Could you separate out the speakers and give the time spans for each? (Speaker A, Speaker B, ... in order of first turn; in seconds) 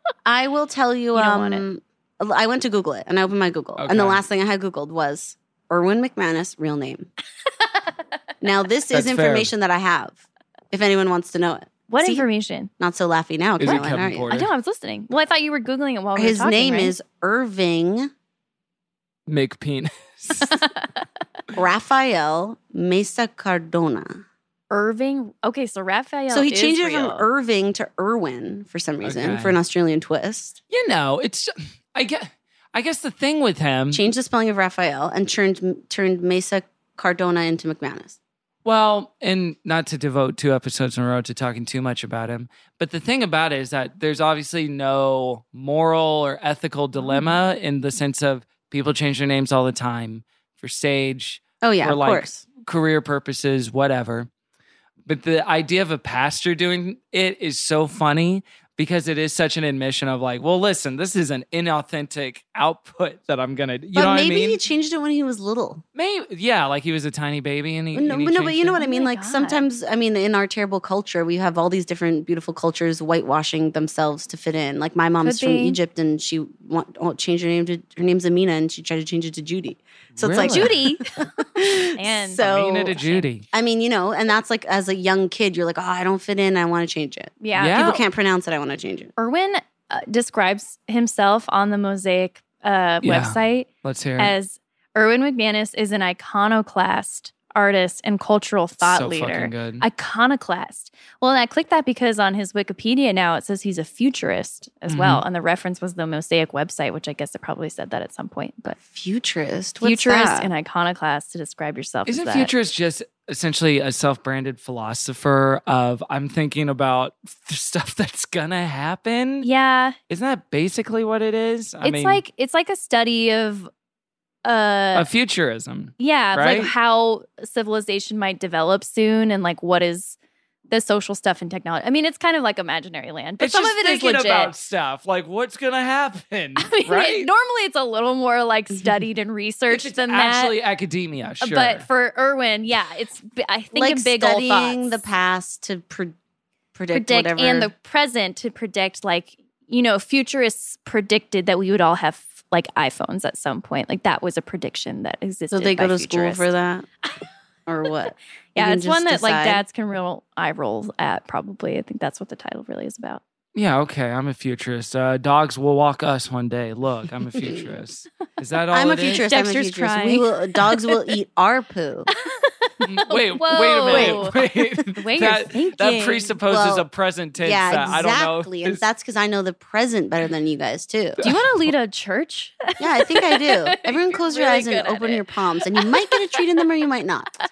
Speaker A: 0.2-7.1, 8.4-10.2, 10.7-12.2, 12.8-14.3, 16.1-18.1, 21.5-24.2, 26.3-30.6, 33.9-38.2, 51.6-52.4, 63.9-65.8, 67.9-83.0, 83.5-89.1, 108.8-110.5, 143.7-146.1, 146.7-147.7, 155.5-156.9, 157.7-159.6, 167.4-167.7, 168.7-172.1, 173.8-174.6, 176.4-176.8, 177.4-181.2, 182.8-187.3
Speaker B: 1.1-1.6, 11.9-12.7, 13.7-16.9, 20.4-20.8, 24.7-27.2, 47.0-47.3, 68.8-69.6, 75.2-75.8, 80.4-81.0, 81.6-83.3, 87.4-88.0, 89.2-93.7, 94.2-108.8, 109.8-112.5, 119.4-120.0, 121.8-123.7, 124.4-125.1, 126.0-130.2, 130.7-134.5, 136.6-140.5, 141.4-145.0, 146.9-156.5, 158.5-163.2, 169.2-170.9, 172.1-174.4, 174.9-176.3, 181.2-186.4
Speaker C: 3.8-4.2, 8.9-9.5, 13.6-14.5, 19.3-20.7, 29.0-29.6, 30.7-34.0, 38.6-54.3, 55.1-64.6, 65.9-68.8, 80.2-80.8, 82.4-83.4, 87.5-88.0, 93.0-94.3, 98.8-99.8, 104.9-105.2, 112.1-119.5, 120.1-122.2, 124.9-126.7, 133.4-137.3, 139.7-141.8, 163.5-169.2, 172.8-178.8, 181.2-181.7